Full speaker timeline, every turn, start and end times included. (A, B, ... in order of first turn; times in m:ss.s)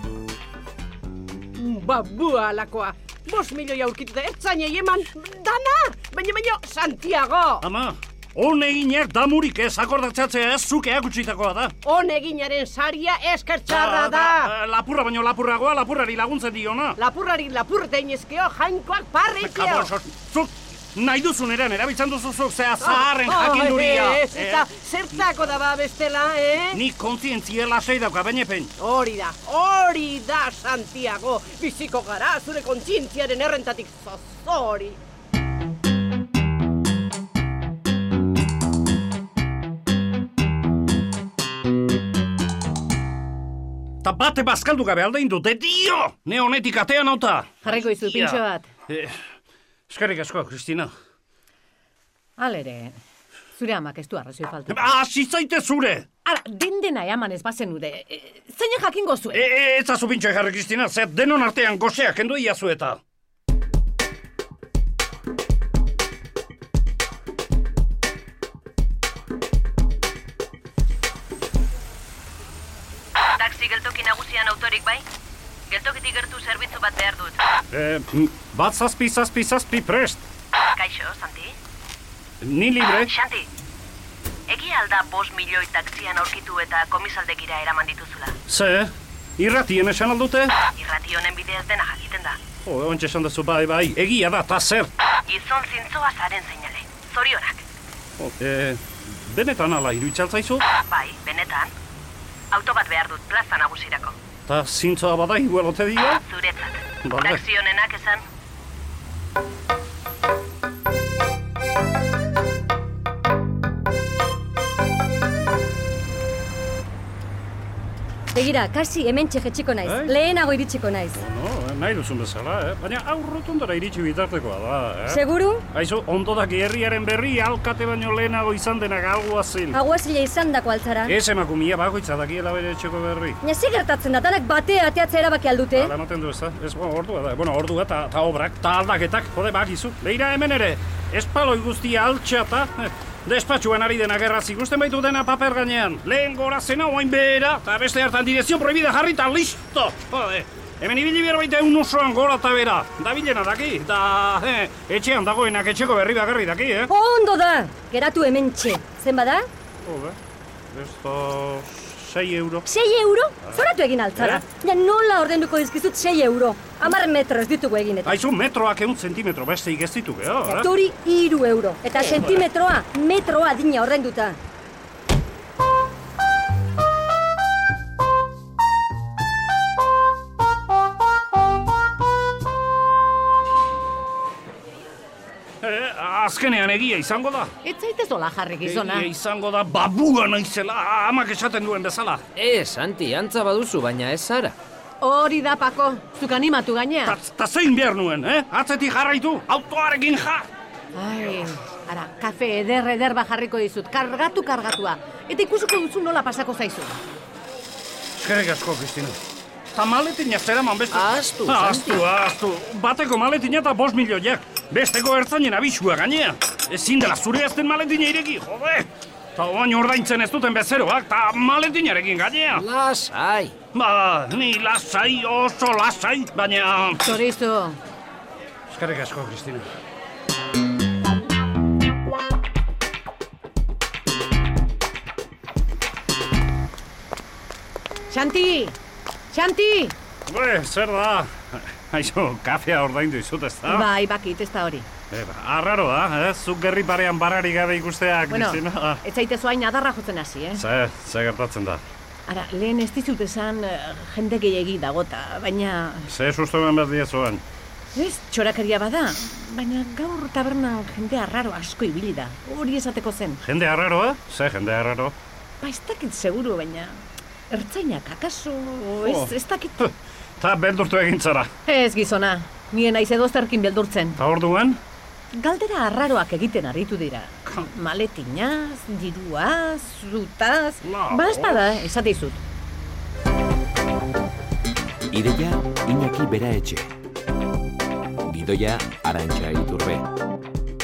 0:01.5-0:07.6 A
0:07.6-0:11.7 B
0:11.8-0:14.5 A
0:13.7-0:17.0 B
0:17.0-0:19.9 A
0:19.4-0:25.2 B
0:22.8-0:26.8 A
0:26.7-0:28.7 B
0:28.8-0:35.0 A
0:44.0-0:49.2 B
0:47.6-0:48.7 C
0:49.9-0:50.9 B
0:52.4-0:53.0 C
0:53.6-0:54.9 C
0:54.7-0:56.1 B
0:56.2-0:59.4 C
0:59.3-1:03.0 B
1:13.4-1:15.0 D
1:15.7-1:17.4 D
1:17.7-1:20.2 B
1:20.7-1:21.5 D
1:22.4-1:23.1 B
1:22.8-1:23.4 D
1:24.5-1:28.4 D
1:28.5-1:30.6 B
1:30.8-1:32.4 D
1:32.6-1:34.9 B
1:35.3-1:37.6 D
1:38.2-1:40.6 B
1:40.9-1:41.7 D
1:42.5-1:44.1 D
1:44.5-1:46.2 B
1:46.2-1:48.2 D
1:47.0-1:47.4 B
1:58.3-2:01.2 E
1:59.8-2:00.2 B
2:01.1-2:09.8 B
2:05.1-2:05.6 E
2:09.7-2:11.2 E
2:11.0-2:13.4 B
2:13.4-2:15.9 E
2:15.7-2:36.9 B
2:36.9-2:39.5 E
2:39.8-2:40.2 B
2:40.7-2:42.7 B
2:42.6-2:48.1 E
2:44.2-2:44.4 B
2:48.0-2:50.7 B
2:50.4-2:54.4 E
2:51.9-2:52.4 B
3:05.6-3:07.5 B
3:07.6-3:09.1 C
3:08.6-3:12.2 B
3:12.4-3:14.6 F
3:15.0-3:17.2 C
3:17.0-3:20.4 B
3:20.9-3:27.0 C
3:28.1-3:29.2 B
3:29.7-3:42.6 B
3:30.9-3:32.0 F
3:42.5-3:43.6 F
3:43.7-3:47.0 B
3:47.0-3:47.8 C
3:48.7-3:49.6 B
3:58.1-3:58.8 C
3:59.3-3:59.9 C
4:00.3-4:03.9 B
4:03.6-4:04.9 C
4:05.1-4:09.0 B
4:08.3-4:10.6 C
4:10.6-4:11.8 B
4:12.3-4:16.1 C
4:16.1-4:17.4 B
4:17.9-4:23.4 C
4:23.4-4:25.1 B
4:25.6-4:29.8 C
4:29.0-4:31.5 B
4:31.6-4:34.2 C
4:34.2-4:34.8 B
4:35.3-4:42.4 C
4:40.8-4:41.8 B
4:45.1-4:46.9 G
4:48.2-4:50.1 G